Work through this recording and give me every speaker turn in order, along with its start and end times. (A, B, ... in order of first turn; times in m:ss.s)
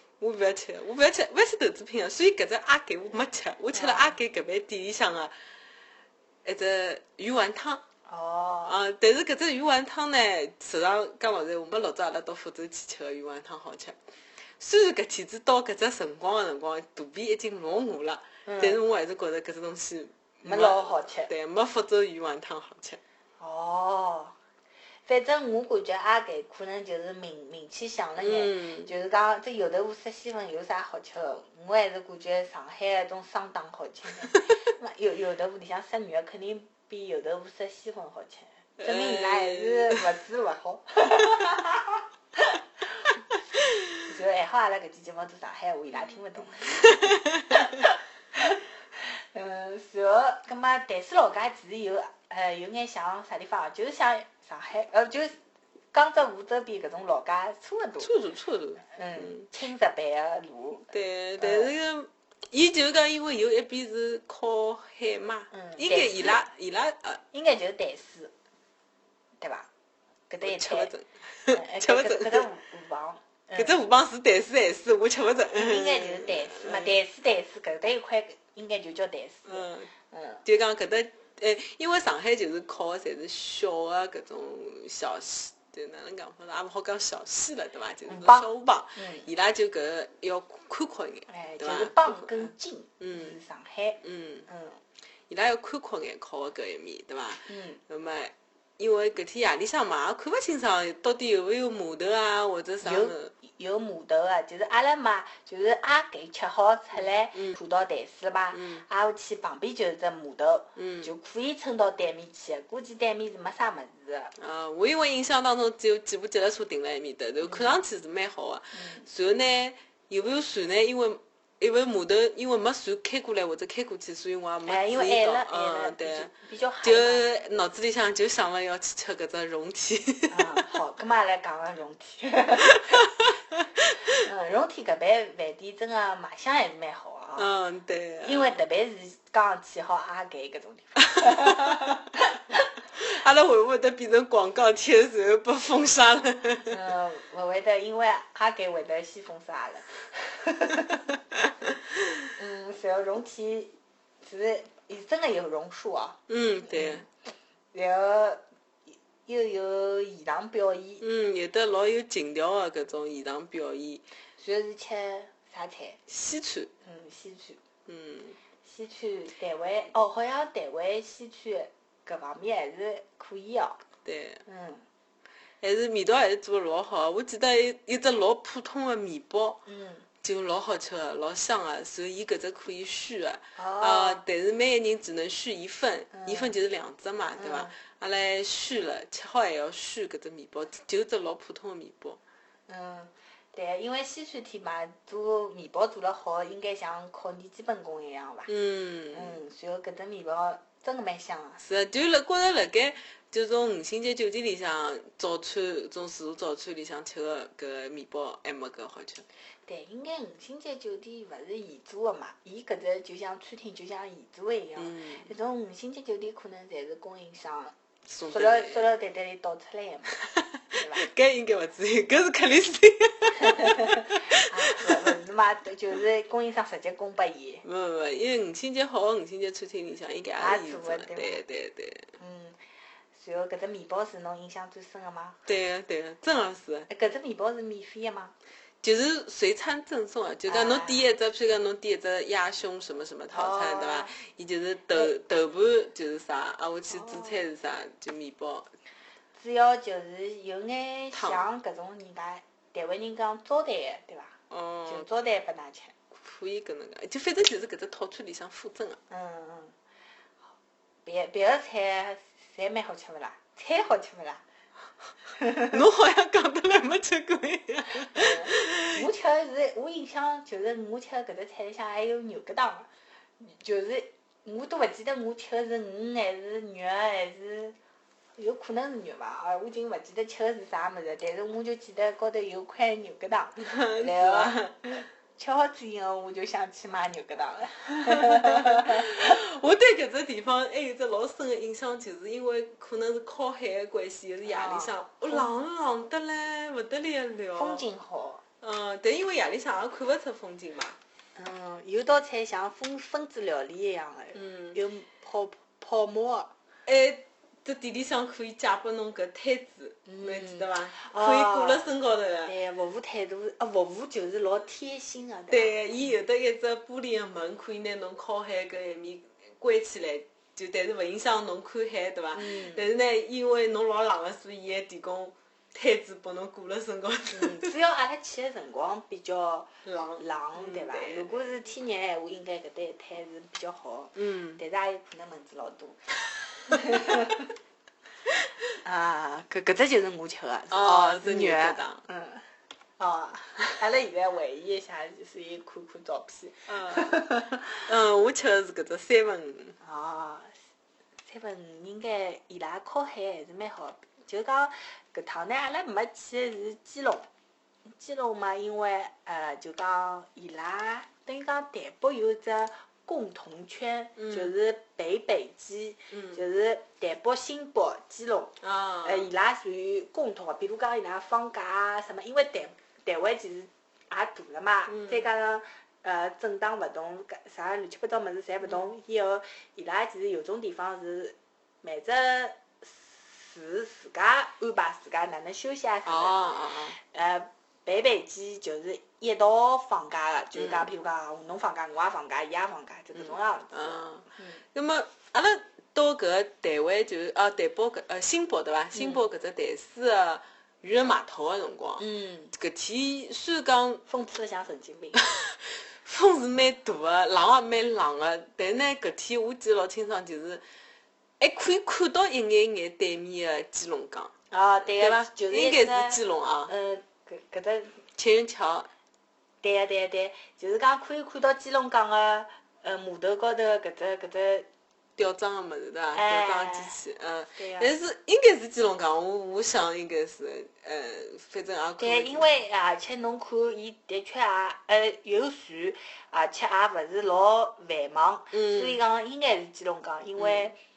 0:00.2-0:05.3 A
0:03.7-0:04.2 B
0:06.4-0:07.8 A
0:08.1-0:08.8 B
0:08.6-0:14.0 A
0:14.6-0:23.0 A
0:18.5-0:18.8 B
0:20.4-0:21.3 B
0:23.4-0:24.4 B
0:25.1-0:43.2 B
0:28.2-0:28.9 A
0:38.8-0:40.0 A
0:44.0-0:55.4 B
0:46.6-0:47.6 A
0:55.9-0:58.1 B
0:58.0-0:59.5 A
0:58.8-1:01.7 B
1:00.9-1:07.2 A
1:05.5-1:06.4 B
1:07.3-1:08.3 B
1:09.4-1:09.7 B
1:10.3-1:10.9 B
1:10.4-1:12.5 A
1:11.5-1:13.8 B
1:13.6-1:17.0 A
1:15.5-1:20.4 B
1:19.5-1:19.9 A
1:20.4-1:33.4 A
1:28.1-1:29.3 B
1:31.3-1:34.8 B
1:34.0-1:34.5 A
1:35.3-1:43.3 A
1:37.5-1:37.8 B
1:42.8-1:54.3 B
1:48.5-1:48.8 A
1:50.8-1:51.1 A
1:54.4-2:10.8 A
1:57.4-1:57.8 B
1:58.7-1:59.1 B
2:04.7-2:07.2 B
2:10.3-2:13.1 B
2:12.7-2:14.1 A
2:14.0-2:17.5 B
2:17.4-2:18.6 A
2:18.2-2:22.7 B
2:21.2-2:22.0 A
2:22.9-2:26.8 A
2:26.7-2:31.2 B
2:32.3-2:37.1 B
2:36.3-2:37.0 A
2:37.7-2:41.0 B
2:41.0-2:44.0 A
2:44.4-2:46.0 B
2:46.1-2:46.7 A
2:46.8-2:47.6 B
2:47.9-2:48.4 A
2:48.6-2:53.8 B
2:54.0-2:54.4 A
2:54.5-2:54.8 B
2:55.6-2:59.6 A
2:59.7-3:00.1 B
3:00.2-3:12.2 A
3:03.6-3:04.2 B
3:06.1-3:06.6 B
3:07.4-3:07.8 B
3:12.7-3:18.5 B
3:18.5-3:19.4 A
3:19.1-3:21.6 B
3:21.6-3:29.2 A
3:29.7-3:40.2 B
3:34.8-3:35.3 A
3:38.1-3:38.9 A
3:40.2-3:45.2 A
3:40.7-3:41.1 B
3:43.4-3:47.6 B
3:47.6-3:52.1 A
3:50.4-3:51.4 B
3:52.2-3:52.6 B
3:53.1-3:55.4 B
3:55.5-3:56.9 A
3:56.9-3:58.3 B
3:58.8-4:08.7 A
4:00.5-4:01.0 B
4:03.3-4:04.1 B
4:06.9-4:07.5 B
4:09.4-4:16.0 B
4:11.1-4:11.4 A
4:14.5-4:15.1 A
4:16.2-4:19.0 A
4:19.1-4:19.8 B
4:21.0-4:24.4 B
4:25.3-4:25.8 B
4:25.7-4:29.0 A
4:28.0-4:32.9 B
4:33.4-4:37.8 B
4:38.4-4:49.4 B
4:43.6-4:45.0 A
4:48.1-4:57.8 A
4:54.4-4:55.5 B
4:57.6-4:58.4 B
4:58.6-5:01.0 A
5:01.4-5:06.5 B
5:04.3-5:04.8 A
5:06.9-5:12.5 A
5:10.1-5:11.9 B
5:12.4-5:15.9 B
5:15.5-5:27.7 A
5:22.3-5:22.9 B
5:27.3-5:36.0 B
5:29.8-5:31.4 A
5:34.2-5:34.6 A
5:36.6-5:37.5 B
5:36.7-5:37.4 A
5:38.8-5:42.5 B
5:40.7-5:42.0 A
5:43.0-5:47.9 B
5:46.7-5:47.3 A
5:47.8-5:49.8 A
5:49.8-5:50.5 B
5:51.3-5:57.3 B
5:57.9-6:34.6 B
6:04.2-6:04.5 A
6:06.1-6:06.4 A
6:08.6-6:09.3 A
6:14.9-6:15.2 A
6:26.0-6:27.0 A
6:30.5-6:30.9 A
6:33.2-6:44.0 A
6:38.9-6:39.2 B
6:42.0-6:42.5 B
6:44.1-6:45.2 B
6:45.2-6:50.6 A
6:51.4-6:54.3 A
6:54.5-6:58.0 B
6:54.8-6:56.7 A
6:58.2-6:58.9 A
6:59.6-7:04.7 B
7:05.2-7:12.5 A
7:06.1-7:07.0 B
7:07.6-7:07.9 B
7:12.0-7:20.8 B
7:18.5-7:19.0 A
7:20.4-7:20.7 A